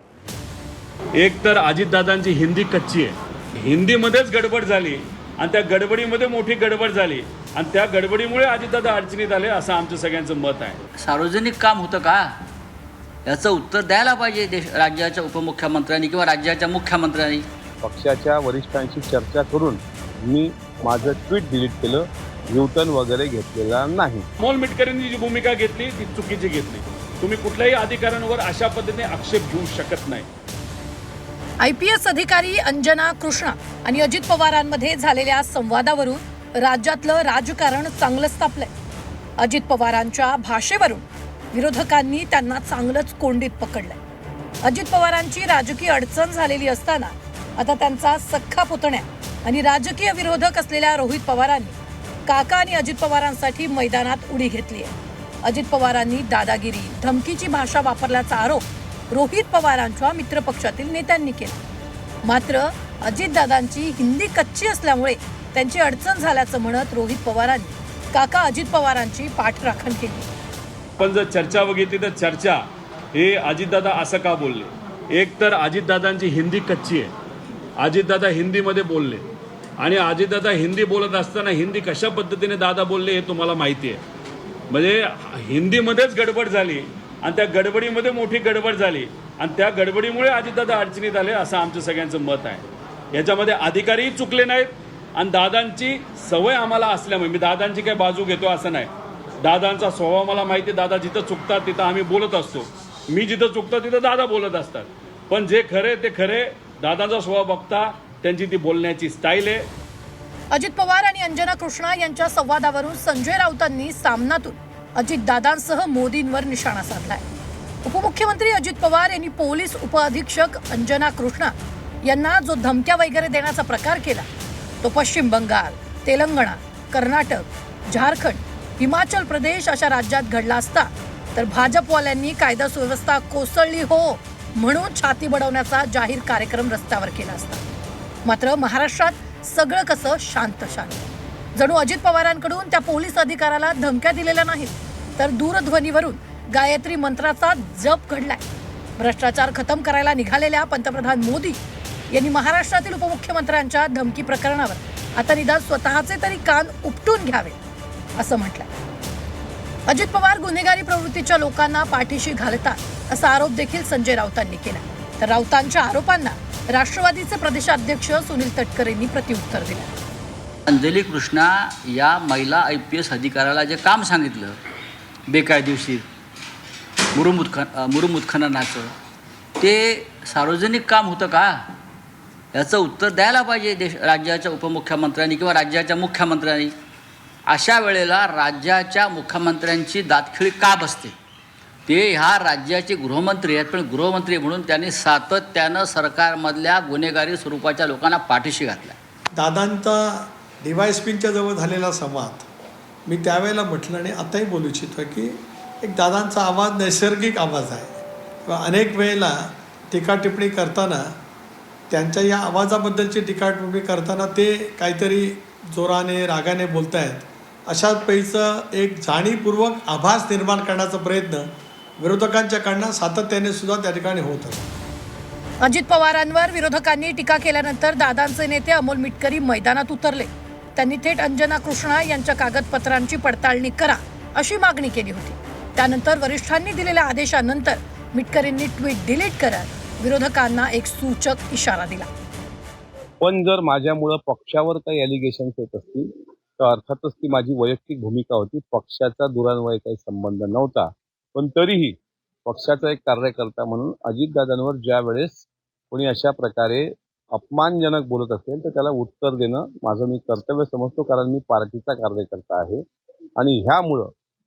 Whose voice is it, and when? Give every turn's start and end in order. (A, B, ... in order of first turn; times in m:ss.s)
0:01.2-0:10.8 A
0:11.0-0:12.3 B
0:13.2-0:17.4 B
0:17.8-0:24.2 C
0:24.4-0:30.3 A
0:31.6-0:38.7 D
0:39.4-0:44.0 D
0:44.6-1:01.6 D
1:02.2-1:10.3 D
1:11.0-1:17.1 A
1:17.8-1:19.2 A
1:19.8-1:24.0 A
1:24.7-1:49.6 A
1:50.5-1:57.2 D
1:57.8-2:04.3 D
2:04.8-2:17.6 D
2:18.2-2:28.4 D
2:29.0-2:31.6 D
2:32.1-2:37.6 D
2:38.2-2:38.7 D
2:39.9-2:49.9 D
2:50.7-2:54.6 B
2:55.3-2:56.0 B
2:57.1-2:58.9 B
2:59.6-3:01.6 B
3:02.5-3:06.7 B
3:07.5-3:11.1 B
3:11.9-3:19.0 B
3:19.4-3:22.5 E
3:23.1-3:27.9 E
3:28.4-3:31.1 E
3:31.9-3:44.6 E
3:45.6-4:02.1 D
4:03.2-4:22.8 C
4:23.4-4:24.1 C